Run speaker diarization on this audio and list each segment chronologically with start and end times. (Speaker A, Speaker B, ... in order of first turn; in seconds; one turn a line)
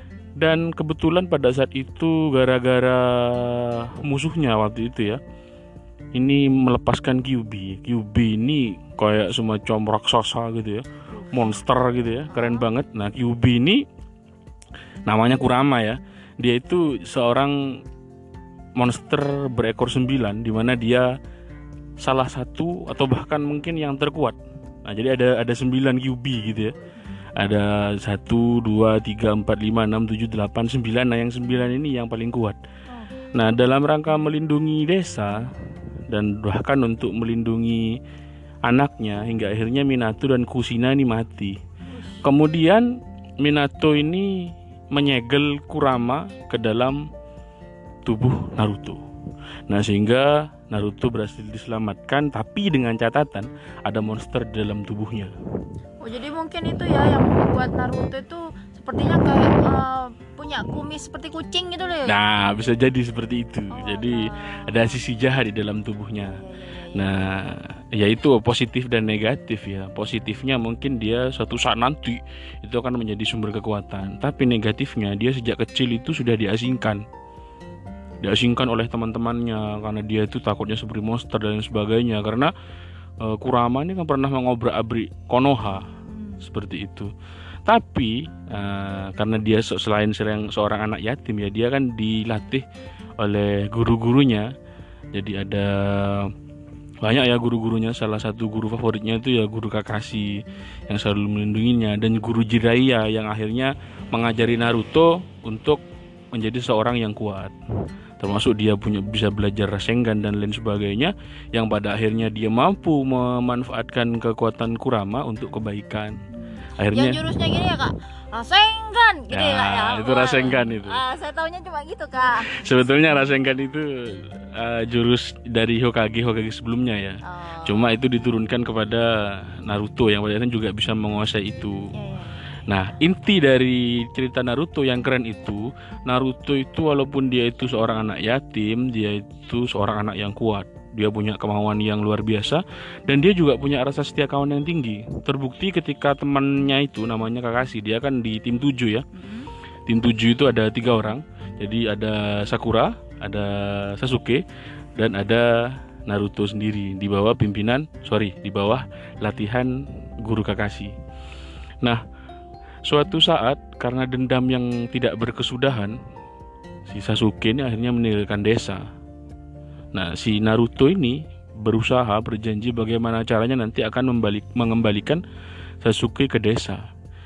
Speaker A: 0.4-5.2
Speaker A: 6.2-13.8
Speaker B: 12.3-12.7
Speaker A: 15.1-17.6
Speaker A: 18.8-21.1
Speaker A: 22.0-26.7
Speaker A: 27.4-32.6
Speaker A: 33.4-35.5
Speaker A: 36.1-38.0
Speaker A: 38.6-41.6
Speaker A: 42.2-42.9
Speaker A: 43.4-47.0
Speaker A: 48.1-49.0
Speaker A: 49.7-55.3
Speaker B: 56.0-62.2
Speaker A: 62.1-66.4
Speaker B: 63.7-65.0
Speaker B: 66.2-67.2
Speaker A: 66.9-77.0
Speaker A: 78.2-82.5
Speaker A: 83.2-85.9
Speaker B: 86.1-86.4
Speaker A: 86.4-87.1
Speaker A: 87.7-92.7
Speaker A: 93.2-94.5
Speaker A: 95.1-96.3
Speaker A: 97.0-105.8
Speaker A: 106.3-107.5
Speaker A: 108.2-116.2
Speaker A: 116.8-117.2
Speaker B: 116.9-122.7
Speaker A: 119.3-121.0
Speaker A: 122.5-131.9
Speaker B: 127.3-128.0
Speaker B: 131.9-132.4
Speaker A: 132.7-149.1
Speaker B: 149.1-149.5
Speaker A: 149.9-154.4
Speaker A: 155.0-160.9
Speaker A: 162.9-165.9
Speaker A: 166.9-168.8
Speaker A: 169.9-175.2
Speaker A: 175.8-176.8